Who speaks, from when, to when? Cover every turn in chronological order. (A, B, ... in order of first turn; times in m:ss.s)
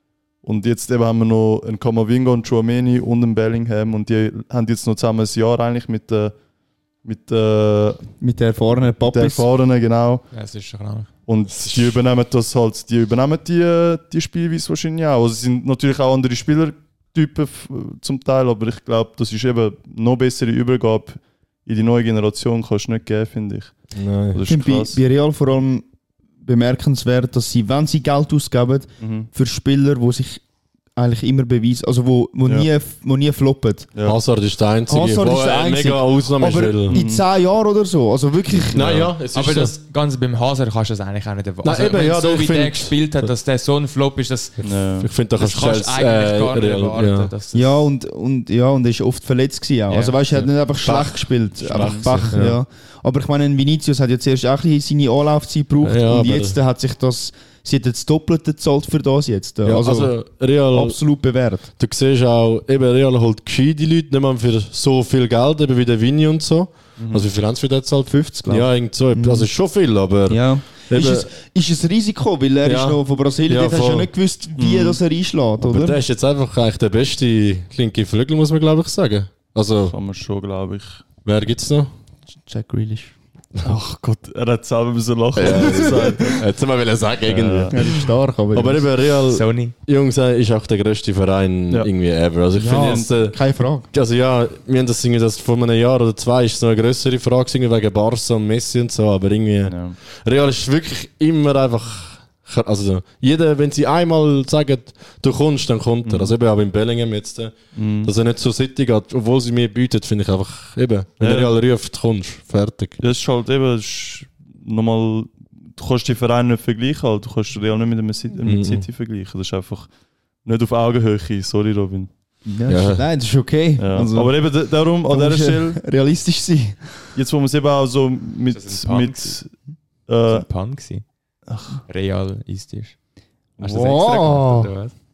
0:00.4-0:06.4 A
0:07.0-0:08.1 A
0:08.2-0:09.4 B
0:09.0-0:10.2 A
0:10.3-0:11.1 C
0:11.3-0:25.0 A
0:11.6-0:11.9 D
0:23.9-0:24.4 D
0:24.5-0:25.8 B
0:26.4-0:30.4 B
0:29.0-0:29.3 A
0:30.9-0:33.9 B
0:34.0-0:37.0 D
0:34.9-0:39.0 B
0:36.9-0:37.2 A
0:38.7-0:39.0 A
0:38.7-0:39.7 D
0:39.3-0:44.6 C
0:41.6-0:43.3 D
0:44.6-0:45.1 A
0:45.0-0:47.3 D
0:45.4-0:47.9 C
0:47.5-1:01.7 B
0:49.9-0:50.5 C
0:50.8-0:52.6 D
0:51.6-0:52.3 A
0:55.8-0:56.6 D
0:59.6-1:01.0 D
1:01.8-1:11.3 D
1:07.0-1:07.3 A
1:08.1-1:09.5 B
1:10.3-1:16.0 B
1:12.6-1:14.1 D
1:14.5-1:15.0 A
1:15.6-1:19.9 D
1:19.9-1:21.0 A
1:21.2-1:21.9 D
1:22.4-1:23.1 B
1:23.6-1:26.4 A
1:25.3-1:53.0 D
1:25.5-1:26.2 B
1:27.2-1:27.8 A
1:27.7-1:28.9 B
1:29.3-1:29.7 C
1:32.6-1:33.9 B
1:32.6-1:33.1 A
1:39.7-1:40.0 A
1:46.0-1:46.3 A
1:47.7-1:48.1 A
1:51.2-1:51.5 A
1:53.0-1:59.9 A
1:58.4-1:58.8 D
2:00.4-2:02.1 A
2:02.4-2:04.3 B
2:02.7-2:03.0 D
2:03.8-2:05.8 A
2:05.1-2:06.9 B
2:07.1-2:10.5 A
2:08.5-2:09.4 C
2:10.3-2:11.0 C
2:11.5-2:11.8 A
2:11.8-2:12.9 C
2:13.6-2:14.9 C
2:13.6-2:14.7 B